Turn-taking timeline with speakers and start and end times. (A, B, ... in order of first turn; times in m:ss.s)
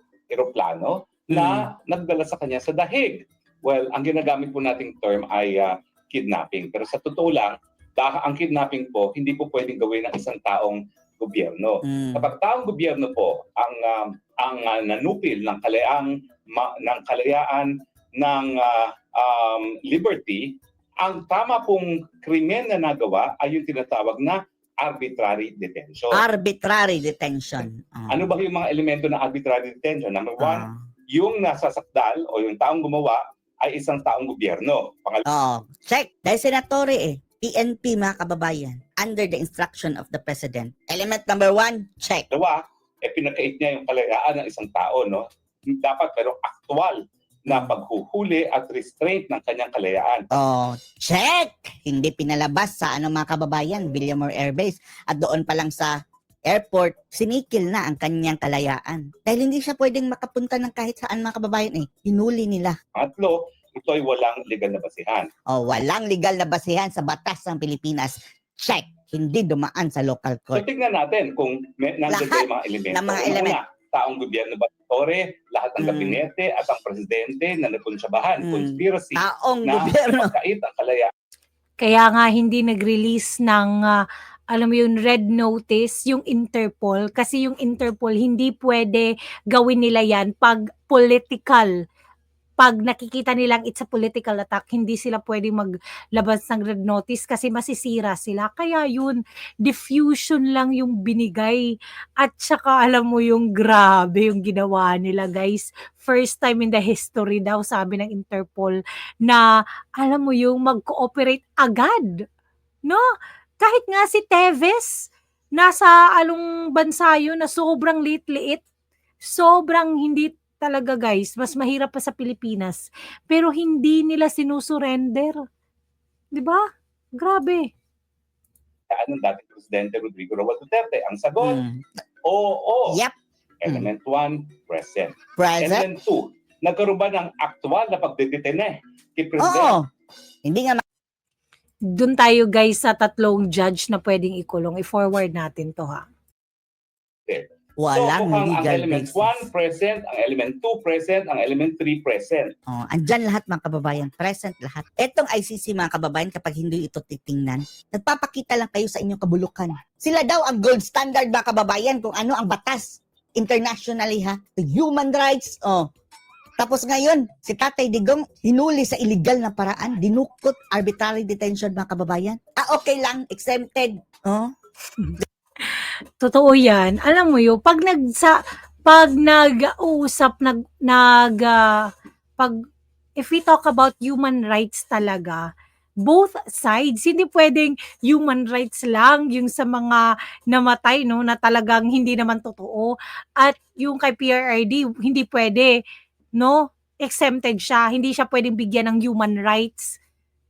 0:00.3-0:26.2 A
0:01.3-0:01.7 B
0:11.8-0:12.3 B
0:26.1-0:28.3 B
0:27.6-0:35.2 A
0:30.4-0:30.8 B
0:35.3-0:42.3 B
0:42.3-0:50.3 A
0:47.5-0:47.7 B
0:50.3-0:55.9 B
0:56.5-1:02.8 B
1:03.0-1:05.3 A
1:05.5-1:10.6 B
1:10.5-1:21.1 A
1:12.1-1:13.6 B
1:15.8-1:16.2 B
1:18.4-1:20.3 B
1:21.8-1:31.7 C
1:32.6-1:41.6 C
1:42.2-1:49.4 C
1:50.0-1:52.2 C
1:53.6-1:58.6 C
1:59.2-2:05.4 C
2:06.3-2:06.6 C
2:07.2-2:07.7 C
2:08.9-2:11.6 A
2:11.4-2:11.8 B
2:12.3-2:13.0 A
2:12.9-2:13.1 B
2:13.6-2:19.7 A
2:15.4-2:15.9 B
2:19.4-2:19.8 B
2:20.4-2:20.8 B
2:21.9-2:26.0 C
2:27.3-2:32.5 A
2:27.8-2:29.4 B
2:32.7-2:45.9 B
2:46.6-2:54.5 B
2:55.0-3:01.6 C
3:03.2-3:05.4 C
3:06.0-3:15.7 C
3:16.4-3:20.0 C